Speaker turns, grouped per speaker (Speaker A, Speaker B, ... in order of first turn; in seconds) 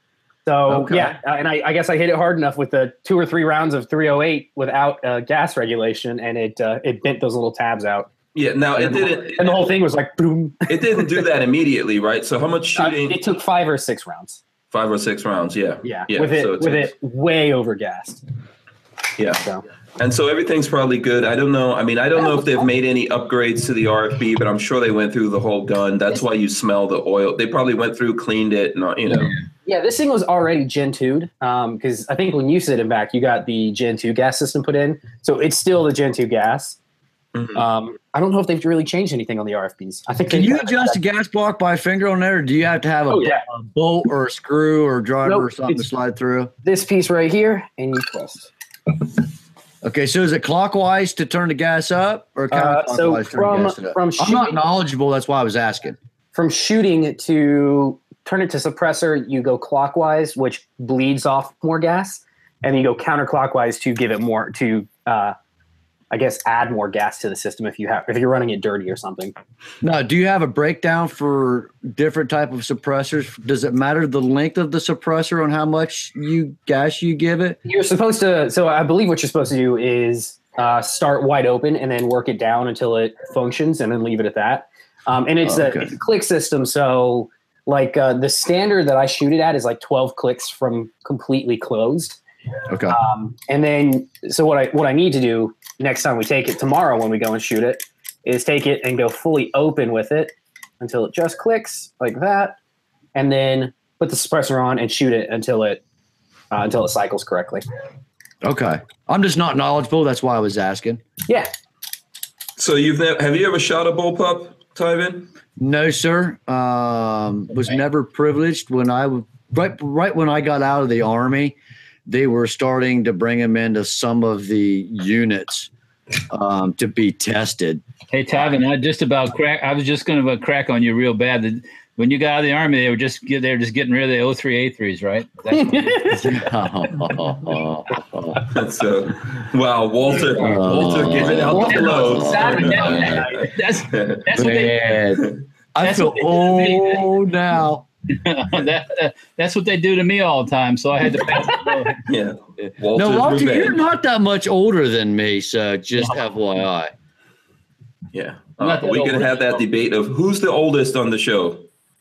Speaker A: 0.5-8.1, 8.8-11.2, 12.8-14.4, 15.8-18.2, 29.6-36.8, 37.5-41.0, 43.1-43.4, 45.2-45.8, 46.6-48.5, 52.5-54.6, 56.3-65.3, 66.1-69.3, 77.6-92.2, 92.9-102.6, 103.1-105.8, 106.5-107.6, 135.5-136.3, 141.4-143.5
Speaker B: 0.7-1.2, 40.3-46.5, 49.8-56.0, 69.8-77.6, 85.4-85.9, 92.7-93.0, 108.4-111.0, 115.6-125.7, 126.3-127.8, 136.1-138.4, 140.4-143.2, 144.3-147.8, 152.9-156.9
Speaker C: 8.3-9.7, 10.7-13.2, 14.7-16.9, 19.2-19.4, 20.0-29.3, 37.3-37.6, 112.6-115.3, 138.4-143.2, 143.8-144.3, 152.0-153.8, 158.1-161.7
Speaker D: 128.1-136.2, 141.7-145.0, 145.8-147.1, 148.1-152.0, 158.6-159.6